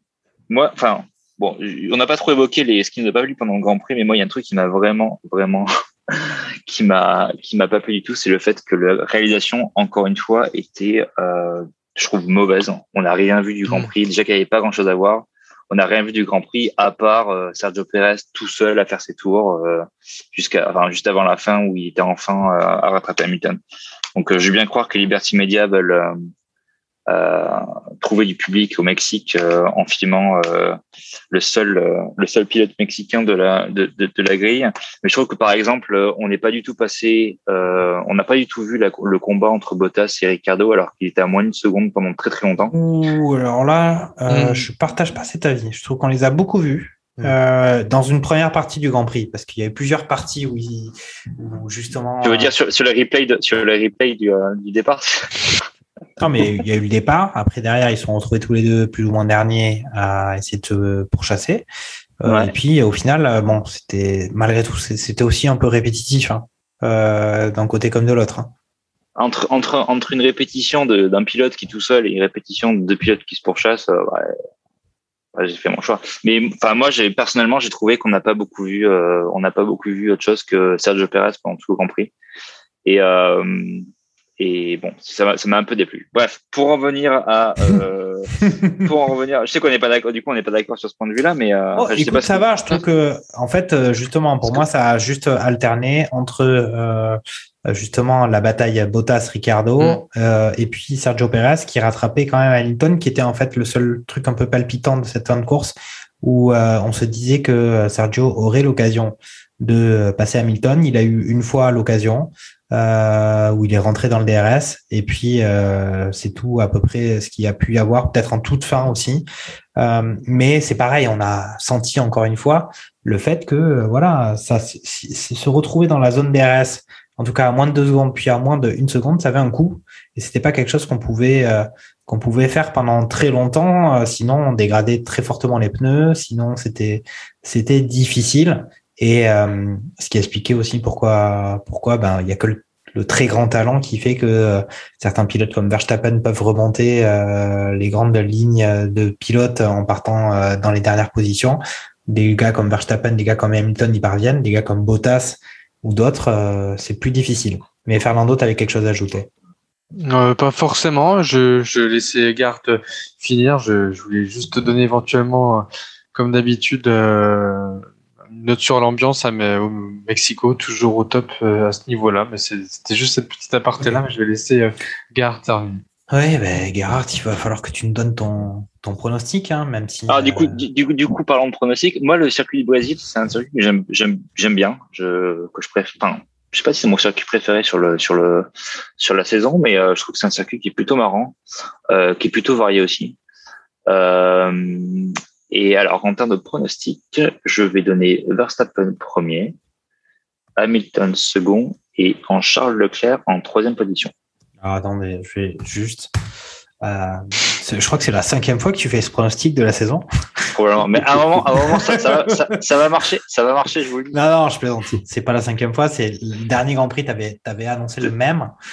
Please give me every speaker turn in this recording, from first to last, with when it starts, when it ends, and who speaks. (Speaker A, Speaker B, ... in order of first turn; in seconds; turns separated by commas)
Speaker A: 0.5-23.6, Speaker A: 24.1-26.2, Speaker A: 27.1-30.8, Speaker A: 31.3-42.7, Speaker B: 42.7-52.5, Speaker C: 44.3-44.7, Speaker A: 52.2-55.5, Speaker B: 56.2-61.7, Speaker B: 62.2-68.5, Speaker A: 62.2-62.5, Speaker A: 69.2-74.3, Speaker A: 75.3-82.1, Speaker A: 82.8-83.8, Speaker A: 84.4-92.8, Speaker B: 91.8-119.2, Speaker B: 119.8-159.3, Speaker C: 160.0-175.8, Speaker B: 176.1-180.6, Speaker A: 180.1-191.4, Speaker A: 191.9-193.2, Speaker A: 193.9-199.6, Speaker A: 200.6-204.1, Speaker B: 204.6-206.1, Speaker B: 206.8-210.1, Speaker A: 210.5-214.2, Speaker B: 210.9-212.5, Speaker B: 214.1-218.5